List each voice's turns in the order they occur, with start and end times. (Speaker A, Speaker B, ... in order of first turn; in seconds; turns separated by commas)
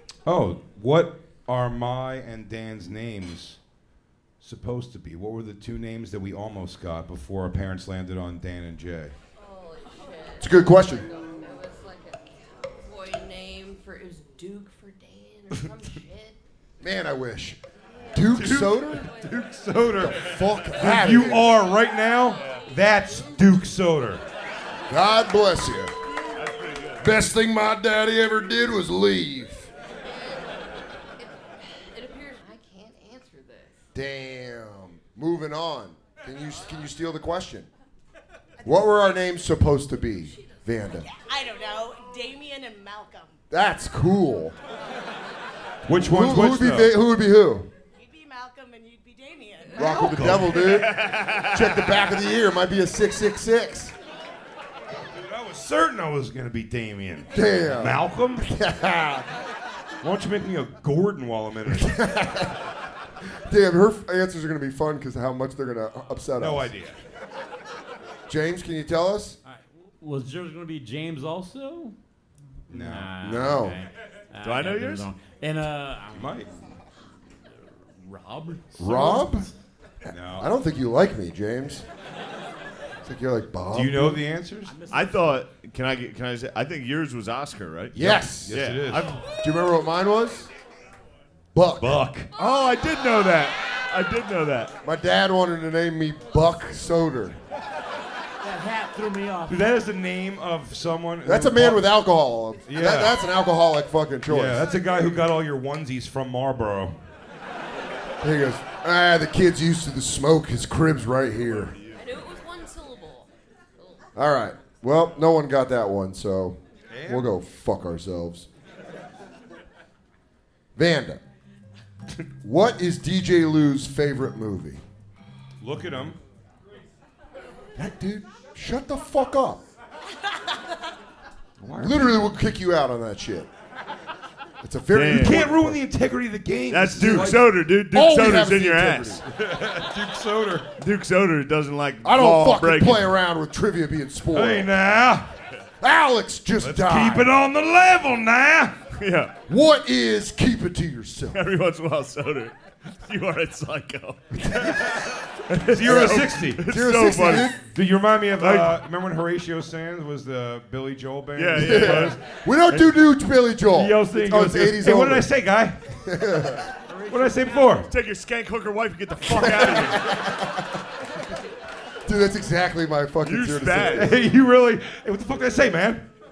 Speaker A: 0.2-3.6, Speaker A: 4.4-9.1, Speaker B: 9.3-16.4, Speaker C: 10.4-11.1, Speaker C: 16.8-17.6, Speaker B: 18.0-18.2, Speaker C: 18.1-19.1, Speaker A: 18.2-24.2, Speaker B: 19.1-19.4, Speaker C: 19.9-21.5, Speaker C: 24.9-25.9, Speaker D: 26.3-27.1, Speaker C: 27.0-29.7, Speaker B: 30.0-30.5, Speaker B: 31.2-33.9, Speaker C: 33.9-37.7, Speaker E: 38.6-38.9, Speaker C: 38.6-41.1, Speaker B: 40.2-40.6, Speaker E: 41.1-43.4, Speaker C: 43.5-44.5, Speaker A: 45.9-46.9, Speaker C: 46.0-47.7, Speaker E: 47.9-49.8, Speaker C: 49.8-53.9, Speaker B: 49.8-50.3, Speaker A: 50.0-50.5, Speaker D: 50.6-51.7, Speaker A: 55.1-58.5, Speaker C: 57.3-59.3, Speaker A: 60.0-61.9, Speaker C: 61.6-62.6, Speaker C: 63.5-66.7, Speaker A: 66.4-67.0, Speaker C: 68.3-69.4, Speaker F: 69.5-71.9, Speaker F: 72.7-76.4, Speaker A: 72.7-73.1, Speaker C: 73.2-73.8, Speaker D: 74.4-75.1, Speaker A: 76.1-76.5, Speaker F: 77.9-79.2, Speaker C: 78.8-79.5, Speaker C: 80.1-81.8, Speaker A: 80.1-80.5, Speaker C: 83.0-84.2, Speaker A: 83.7-84.7, Speaker F: 84.7-85.4, Speaker D: 84.9-89.2, Speaker C: 87.9-88.6, Speaker A: 87.9-89.2, Speaker C: 89.3-90.5, Speaker C: 91.5-92.0, Speaker A: 91.8-92.3, Speaker D: 92.4-94.7, Speaker C: 94.8-97.4, Speaker F: 98.4-99.7, Speaker A: 99.5-101.9, Speaker C: 101.2-104.6, Speaker A: 102.6-103.2, Speaker A: 104.3-107.0, Speaker C: 108.2-111.8, Speaker D: 111.3-112.2, Speaker B: 111.9-114.0, Speaker C: 114.2-118.5, Speaker A: 116.9-117.3, Speaker C: 120.8-121.2, Speaker C: 122.4-124.8, Speaker A: 125.6-126.2, Speaker C: 127.8-129.6, Speaker A: 131.6-132.3, Speaker C: 131.7-133.5, Speaker C: 134.6-135.8, Speaker D: 134.9-135.4, Speaker A: 135.0-137.5, Speaker D: 136.7-139.2, Speaker C: 137.0-139.2, Speaker A: 139.2-140.7, Speaker D: 140.8-143.1, Speaker C: 142.0-144.7, Speaker A: 144.3-145.3, Speaker C: 145.8-147.3, Speaker A: 146.6-148.8, Speaker D: 148.9-149.3, Speaker C: 149.5-151.4, Speaker D: 151.3-154.3, Speaker C: 154.3-155.0, Speaker A: 154.5-156.6, Speaker D: 155.5-157.5, Speaker C: 155.8-157.6, Speaker A: 157.7-162.2, Speaker D: 158.4-158.8, Speaker D: 161.3-162.2, Speaker C: 161.5-165.3, Speaker A: 163.7-165.8, Speaker C: 166.0-166.7, Speaker F: 166.9-167.7, Speaker A: 167.1-167.9, Speaker D: 167.8-170.2, Speaker C: 169.2-170.8, Speaker C: 172.0-174.2, Speaker D: 173.2-174.1, Speaker A: 173.8-176.0